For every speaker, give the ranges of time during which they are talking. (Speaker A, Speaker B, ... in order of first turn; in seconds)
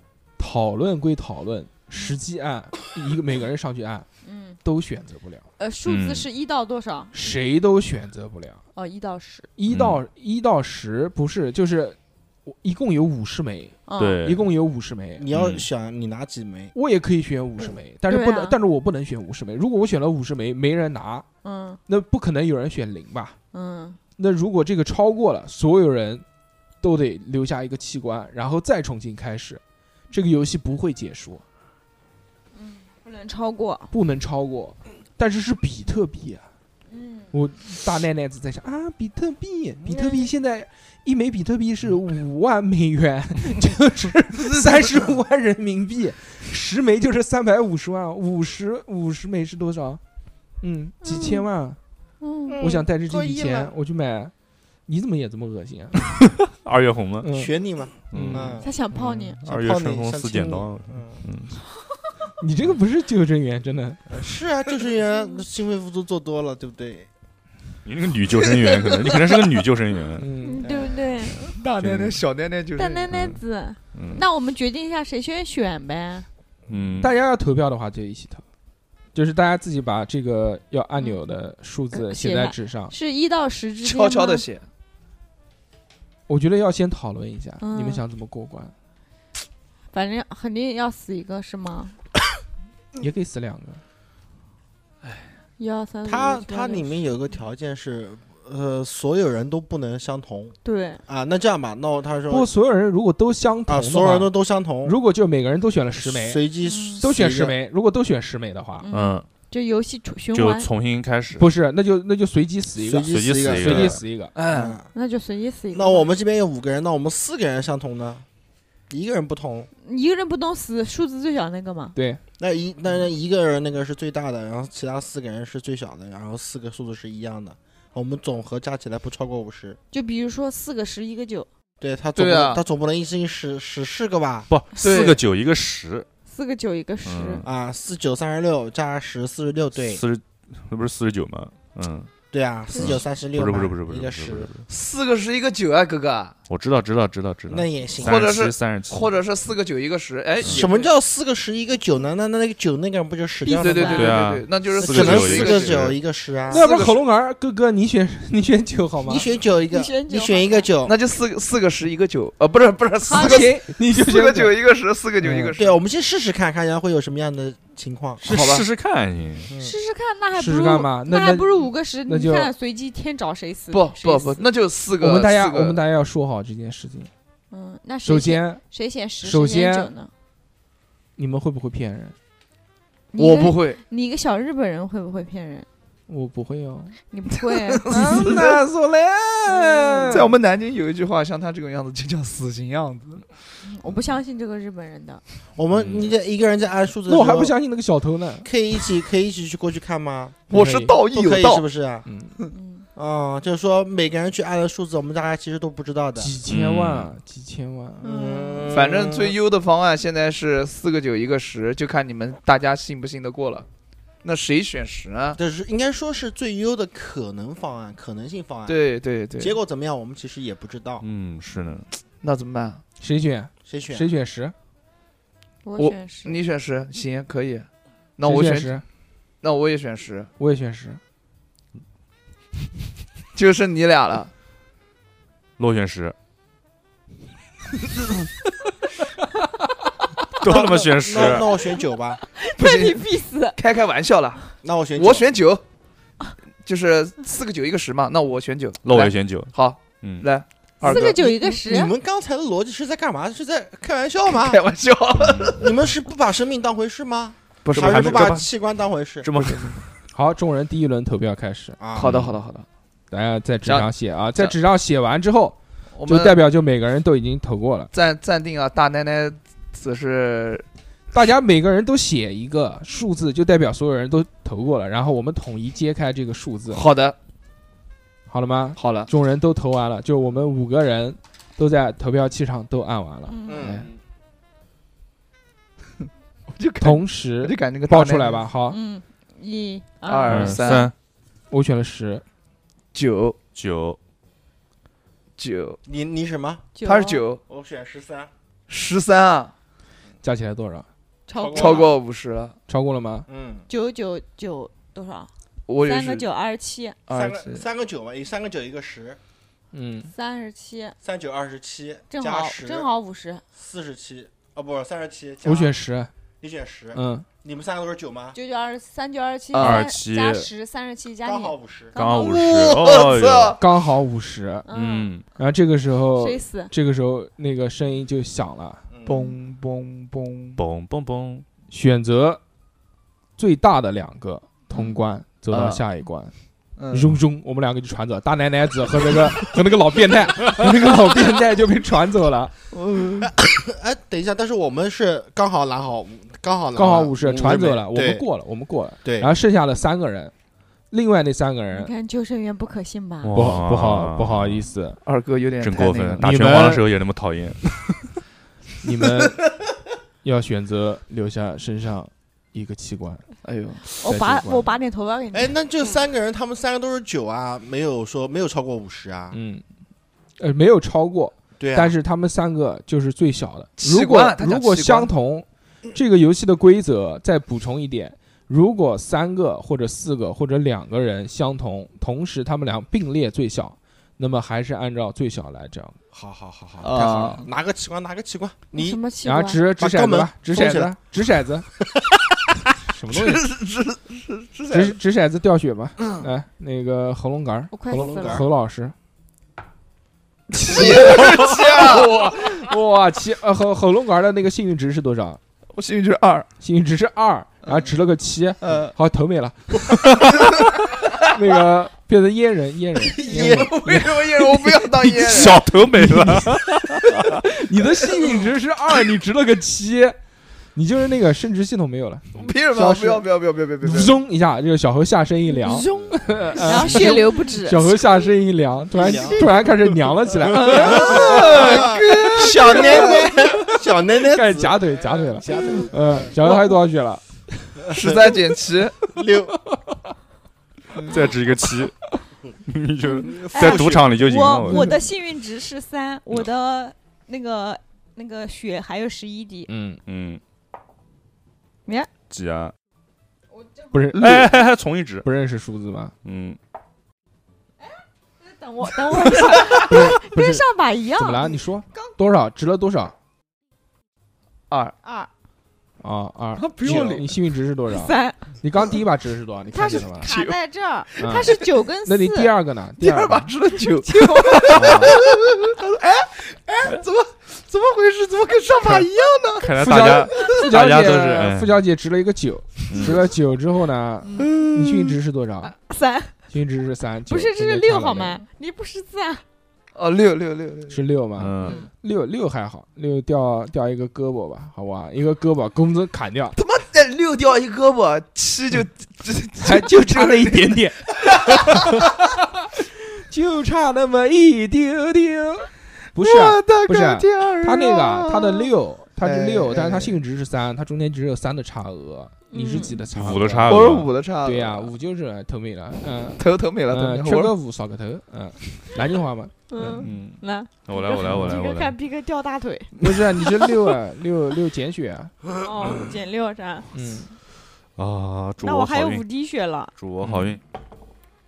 Speaker A: 0.4-4.0, 4.6-5.4, 7.1-8.6, 9.6-15.2, 16.7-21.2, 21.9-23.4, 24.2-26.2, 26.8-31.4, 33.9-36.5, 37.3-50.0, 50.6-51.8, 52.6-54.3, 54.9-56.0, 57.2-57.5, 58.1-58.6, 62.4-64.0, 70.2-70.7, 77.0-78.4, 79.1-82.9, 86.3-88.7, 93.0-93.8, 102.3-104.3, 104.8-106.4, 107.0-108.9, 111.4-114.3, 121.9-122.2, 156.5-159.3, 163.1-164.5, 165.2-165.5, 170.3-172.5, 175.0-177.1, 178.0-178.6, 179.2-179.9, 181.2-182.1, 186.1-186.9, 187.9-188.6, 189.4-190.3, 197.1-198.5, 200.5-201.0, 202.0-202.4, 206.2-208.2, 223.0-224.5, 228.2-228.8, 230.4-231.0, 260.1-261.8, 263.1-267.9, 271.1-276.8, 278.3-283.4, 286.8-288.8, 291.5-292.2, 300.2-300.9, 302.7-303.3, 309.7-310.1, 315.4-316.1, 316.9-317.3, 323.6-324.6, 325.4-328.8, 331.7-332.4, 333.4-336.3, 336.9-342.5, 346.7-350.3, 350.9-351.9, 353.3-355.0, 356.2-356.9, 358.8-359.4, 360.2-363.2, 364.0-364.7, 369.3-369.6, 370.4-386.0, 389.2-391.7, 392.9-393.5, 394.7-398.9, 400.5-405.4, 406.6-410.1, 411.2-420.2, 420.7-423.2, 423.8-431.8, 434.2-437.2, 444.6-445.0, 449.7-450.0, 453.9-454.6, 455.2-456.1, 459.8-460.6, 461.2-463.1, 466.0-470.3, 471.2-473.5, 474.7-475.1, 479.8-485.7, 486.5-488.4, 490.9-496.6, 499.6-502.1, 503.3-513.9, 514.4-520.0, 523.0-525.3, 526.9-527.3
Speaker B: 4.2-4.6, 5.6-7.1, 8.7-9.5, 13.9-14.2, 18.1-18.6, 21.4-21.8, 23.5-24.0, 32.5-33.9, 36.9-37.3, 39.9-40.1, 51.0-51.5, 52.2-52.6, 58.6-59.4, 70.4-71.5, 72.8-76.2, 81.9-84.4, 87.6-88.0, 89.9-92.0, 95.6-97.0, 100.6-101.0, 106.6-107.0, 108.8-110.7, 114.9-116.1, 119.8-122.0, 129.9-131.5, 136.3-137.4, 142.7-143.0, 153.4-154.2, 159.7-160.7, 163.1-163.6, 169.5-174.4, 177.5-180.1, 183.1-185.7, 187.1-188.3, 189.6-190.2, 193.6-195.2, 202.5-202.9, 208.0-208.8, 225.6-226.4, 241.3-241.6, 242.3-243.6, 250.8-251.9, 283.3-283.7, 288.7-290.9, 296.8-297.3, 301.3-301.9, 303.7-305.3, 305.8-307.0, 310.1-310.9, 312.1-313.4, 318.3-322.9, 324.7-325.1, 326.1-326.7, 329.1-329.3, 351.7-353.4, 363.9-365.5, 388.7-389.6, 397.7-398.5, 425.5-427.9, 432.6-433.2, 443.5-449.7, 453.6-453.9, 458.4-462.1, 465.0-465.3, 467.9-468.4, 469.7-472.5, 473.9-475.1, 485.7-486.3, 487.3-489.4, 491.6-491.9, 512.5-513.0, 519.7-523.6, 525.6-526.9, 528.6-529.9
Speaker C: 5.8-6.3, 9.7-10.0, 14.0-14.4, 15.3-15.7, 56.6-57.3, 58.1-58.6, 59.4-61.6, 67.8-70.3, 71.8-72.2, 73.1-73.4, 73.9-74.2, 76.7-77.1, 108.9-109.2, 110.3-111.5, 113.1-114.0, 134.5-136.1, 137.0-137.5, 139.8-142.1, 142.8-144.6, 146.5-149.1, 150.4-150.7, 153.9-156.0, 168.2-169.5, 195.7-196.1, 206.5-207.1, 221.0-221.9, 235.6-236.1, 240.4-241.5, 248.8-250.2, 255.1-255.6, 257.7-258.5, 259.2-259.8, 262.0-262.4, 290.3-290.9, 293.5-294.0, 319.6-320.5, 321.9-323.6, 324.7-325.2, 330.6-331.4, 353.2-354.6, 355.6-357.6, 415.1-417.1, 441.0-441.9, 442.6-444.9, 450.1-450.4, 452.3-452.7, 454.2-455.2, 456.2-456.6, 479.6-481.8, 482.9-483.2, 491.4-491.8, 513.1-514.1, 520.0-521.9, 528.0-529.2, 530.0-530.6
Speaker D: 15.2-16.7, 52.5-53.7, 57.3-58.7, 59.4-61.2, 64.1-67.1, 70.6-71.2, 96.0-100.5, 101.1-102.5, 103.7-104.9, 106.0-107.5, 112.8-114.9, 115.7-118.2, 118.9-119.7, 122.4-129.8, 131.8-134.5, 137.4-140.0, 142.3-144.5, 147.5-148.2, 150.4-156.6, 159.1-160.9, 165.6-168.3, 169.5-169.7, 195.5-197.5, 198.4-200.5, 201.1-202.1, 202.9-206.3, 208.1-209.3, 215.4-218.8, 219.4-221.0, 223.7-224.1, 240.5-242.2, 244.6-245.3, 250.8-254.6, 255.5-259.3, 261.8-262.2, 283.4-284.0, 295.8-296.7, 297.5-298.3, 301.3-301.9, 303.3-303.6, 307.1-309.2, 311.0-312.9, 313.6-315.7, 316.4-318.4, 321.2-321.9, 328.9-329.3, 343.3-348.2, 349.0-349.3, 365.3-369.4, 371.6-371.9, 386.1-389.0, 389.7-390.9, 397.9-398.4, 400.7-402.0, 413.0-413.9, 425.9-426.1, 428.9-429.7, 430.5-436.3, 437.9-438.4, 439.1-439.6, 443.2-444.2
Speaker E: 71.4-73.2, 83.8-84.7, 114.3-114.8, 132.1-132.6, 134.8-135.2, 144.7-146.3, 148.0-150.9, 153.5-155.9, 156.5-157.0, 160.8-165.8, 168.2-168.7, 173.7-175.8, 183.1-183.8, 187.4-193.2, 200.5-201.6, 208.7-213.7, 214.2-215.4, 218.7-219.6, 222.2-222.8, 225.8-228.8, 229.4-230.3, 233.3-234.3, 240.5-240.8, 242.6-243.0, 243.6-245.6, 246.6-251.2, 254.3-255.7, 257.6-258.4, 259.3-259.8, 261.9-262.6, 263.6-264.6, 265.9-266.4, 267.9-270.6, 276.7-277.1, 278.8-279.1, 283.6-283.9, 286.5-288.5, 290.1-290.9, 292.9-293.4, 295.4-295.8, 296.8-297.4, 298.7-299.5, 301.5-302.6, 305.7-306.2, 307.1-307.6, 319.5-319.9, 322.2-323.6, 329.1-330.6, 335.5-335.8, 336.8-337.2, 340.6-341.1, 342.7-343.3, 355.0-356.2, 363.4-363.8, 373.8-375.1, 386.8-387.5, 393.1-394.9, 400.6-402.3, 405.7-406.5, 408.6-408.9, 413.2-415.6, 422.3-424.2, 430.4-433.3, 436.4-436.7, 437.9-439.0, 440.9-441.2, 459.4-459.9, 464.7-464.9, 466.6-467.3, 470.2-470.6, 473.0-480.5, 484.3-485.2, 489.9-491.0, 496.6-502.0, 506.2-510.2, 513.7-514.9, 516.4-517.5